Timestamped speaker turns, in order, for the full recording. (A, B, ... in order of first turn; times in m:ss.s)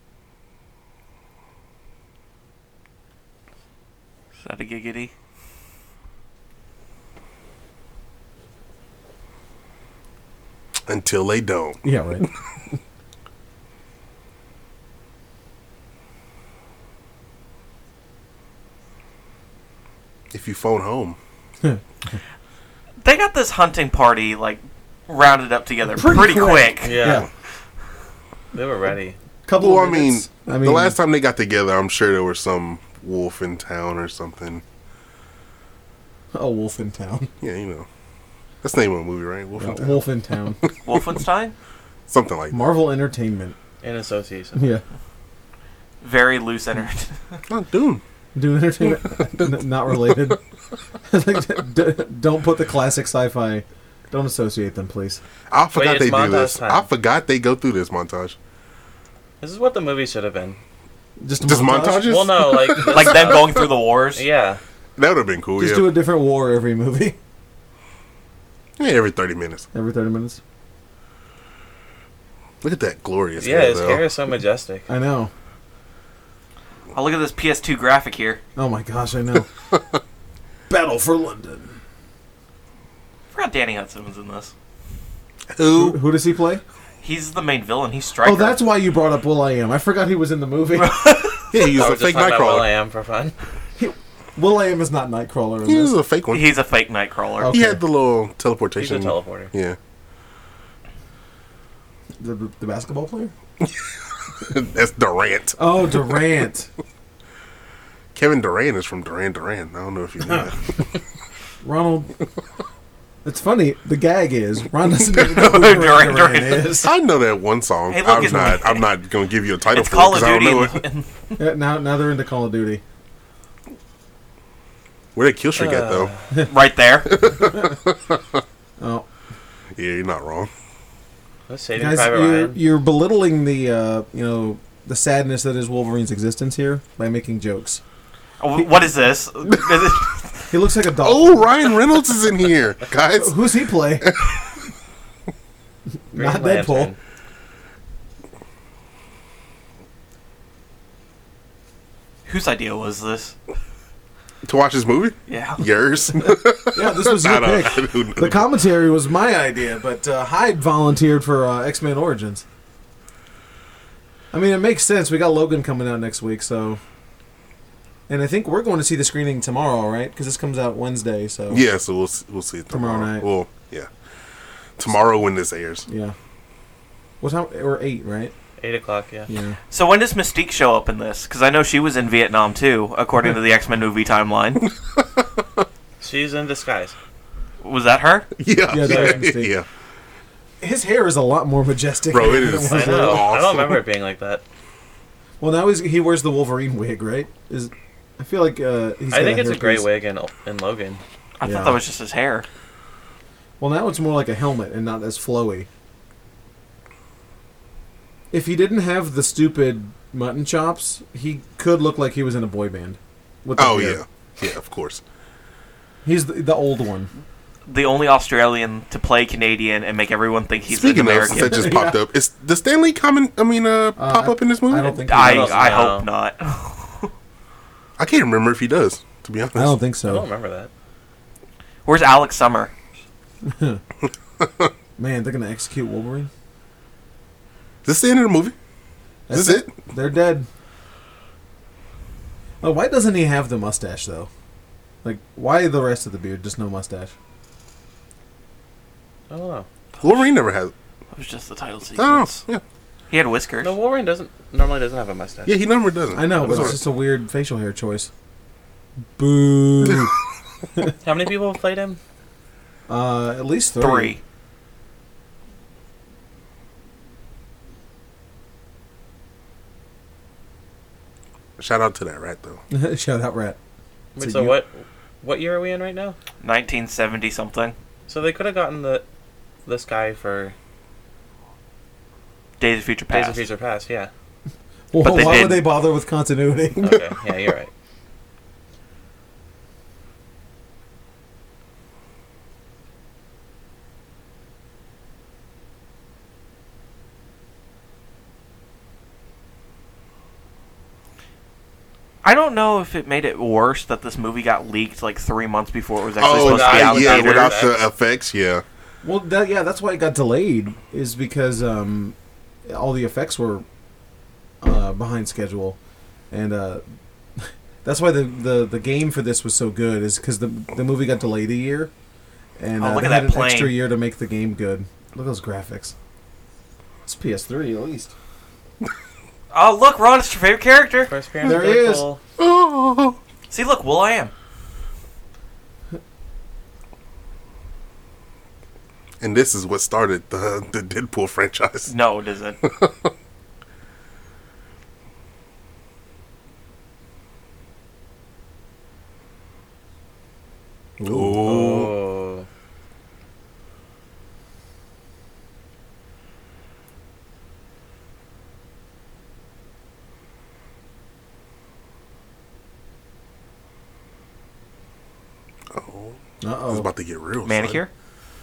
0:04.4-0:05.1 A
0:10.9-0:12.2 B
0:11.8-0:12.3 C
0:20.3-0:21.2 B
0:21.6-0:22.2 C
0:23.0-0:27.1 A
0:25.9-0:27.3 C
0:26.8-0:27.3 D
0:28.5-0:29.2 D
0:29.4-0:31.0 C
0:29.6-0:34.6 B
0:36.3-0:37.3 C
0:37.4-0:37.9 B
0:38.6-0:41.2 B
0:39.6-0:40.6 C
0:40.8-0:41.6 A
0:42.1-0:42.7 B
0:42.5-0:43.6 C
0:43.8-0:44.7 D
0:44.6-0:44.8 C
0:46.0-0:47.2 A
0:47.5-0:48.0 B
0:48.4-0:50.4 C
0:48.9-0:50.3 B
0:51.1-0:55.2 C
0:55.5-0:58.4 B
0:55.8-0:56.9 D
0:59.4-1:00.6 D
1:01.2-1:02.6 C
1:01.4-1:03.2 B
1:02.0-1:04.6 D
1:02.9-1:04.2 A
1:05.0-1:06.0 B
1:05.6-1:07.2 C
1:08.8-1:09.7 B
1:09.7-1:10.4 C
1:12.6-1:14.0 B
1:13.4-1:14.9 D
1:14.9-1:15.3 C
1:16.9-1:18.4 A
1:18.6-1:19.5 C
1:20.7-1:21.8 C
1:23.3-1:24.5 A
1:25.5-1:26.0 B
1:25.7-1:26.6 C
1:27.0-1:28.6 A
1:28.2-1:31.4 C
1:30.8-1:31.7 A
1:31.5-1:32.7 B
1:31.8-1:33.4 D
1:33.8-1:36.0 C
1:35.6-1:36.6 B
1:36.3-1:37.6 A
1:37.4-1:37.8 C
1:37.5-1:39.8 B
1:38.8-1:39.5 D
1:42.2-1:43.3 C
1:43.6-1:46.2 B
1:45.6-1:46.7 C
1:48.2-1:50.8 B
1:50.3-1:50.5 C
1:51.6-1:52.1 C
1:53.2-1:56.9 C
1:55.2-1:56.8 A
1:56.8-2:00.8 B
1:57.9-1:58.9 A
1:59.7-2:01.4 A
2:01.4-2:02.8 C
2:05.2-2:06.1 B
2:05.6-2:06.3 D
2:06.4-2:07.1 A
2:07.1-2:08.4 B
2:07.4-2:07.8 C
2:08.8-2:09.1 C
2:09.8-2:10.5 B
2:11.5-2:12.6 D
2:11.8-2:17.8 C
2:18.4-2:20.6 A
2:20.5-2:21.5 C
2:21.0-2:23.4 B
2:23.1-2:24.2 C
2:24.0-2:24.5 B
2:26.1-2:26.9 C
2:26.1-2:27.0 D
2:32.3-2:33.4 A
2:34.4-2:38.5 B
2:35.3-2:35.6 A
2:36.2-2:42.4 C
2:44.3-2:46.8 C
2:48.1-2:51.7 C
2:51.5-2:53.9 B
2:52.7-2:53.3 C
2:54.8-2:55.8 B
2:55.9-2:56.2 C
2:57.2-2:58.3 C
2:58.6-2:59.3 D
2:59.3-2:59.6 C
2:59.7-3:04.7 A
3:04.7-3:05.2 B
3:06.0-3:07.0 D
3:07.6-3:08.3 A
3:08.4-3:09.7 B
3:08.7-3:09.6 C
3:08.8-3:09.2 D
3:10.6-3:13.3 C
3:12.1-3:13.8 B
3:12.7-3:14.4 D
3:15.4-3:19.9 C
3:19.1-3:21.0 D
3:21.4-3:22.5 A
3:21.4-3:21.8 C
3:23.6-3:25.7 C
3:28.3-3:34.0 C
3:33.6-3:35.0 B
3:36.0-3:37.1 C
3:37.7-3:41.8 A
3:40.7-3:45.0 B
3:41.3-3:42.0 C
3:44.0-3:45.9 C
3:45.0-3:47.1 A
3:45.1-3:46.1 D
3:48.0-3:49.8 B
3:49.6-3:50.3 C
3:50.0-3:50.7 D
3:51.8-3:52.7 A
3:53.4-3:53.8 C
3:54.4-3:54.7 B
3:55.0-3:56.3 C
3:57.8-3:58.6 B
3:59.3-4:00.5 C
3:59.3-3:59.7 B
4:02.6-4:04.3 C
4:05.0-4:07.1 C
4:09.3-4:09.7 D
4:10.0-4:10.3 A
4:10.0-4:10.7 B
4:11.1-4:12.4 A
4:12.0-4:12.6 B
4:13.1-4:13.8 A
4:13.6-4:15.6 D
4:15.4-4:16.8 B
4:16.1-4:18.1 C
4:19.2-4:20.1 C
4:21.0-4:22.0 D
4:22.9-4:24.2 C
4:23.8-4:24.2 A
4:31.6-4:32.6 B
4:32.7-4:33.6 C
4:34.2-4:36.2 D
4:34.2-4:34.6 C
4:36.4-4:37.8 A
4:38.1-4:39.0 D
4:39.7-4:40.6 D
4:42.6-4:43.5 A
4:43.1-4:44.1 D
4:44.9-4:47.0 C
4:45.0-4:45.7 A
4:46.8-4:47.7 D
5:02.2-5:07.6 A
5:06.2-5:08.6 B
5:06.3-5:07.9 D
5:09.0-5:13.6 C
5:14.6-5:15.8 C
5:16.3-5:16.8 C
5:17.4-5:21.9 C
5:22.6-5:25.9 C
5:22.8-5:23.8 A
5:27.0-5:28.1 C
5:29.5-5:31.1 A
5:31.1-5:32.2 D
5:31.4-5:32.0 C
5:32.4-5:33.2 B
5:33.5-5:34.3 A
5:39.2-5:41.9 B
5:41.9-5:42.6 A
5:42.6-5:43.1 B
5:51.0-5:51.4 C
5:51.1-5:52.0 B
5:51.4-5:52.5 D
6:05.7-6:07.8 B
6:06.4-6:06.9 C
6:07.4-6:07.9 A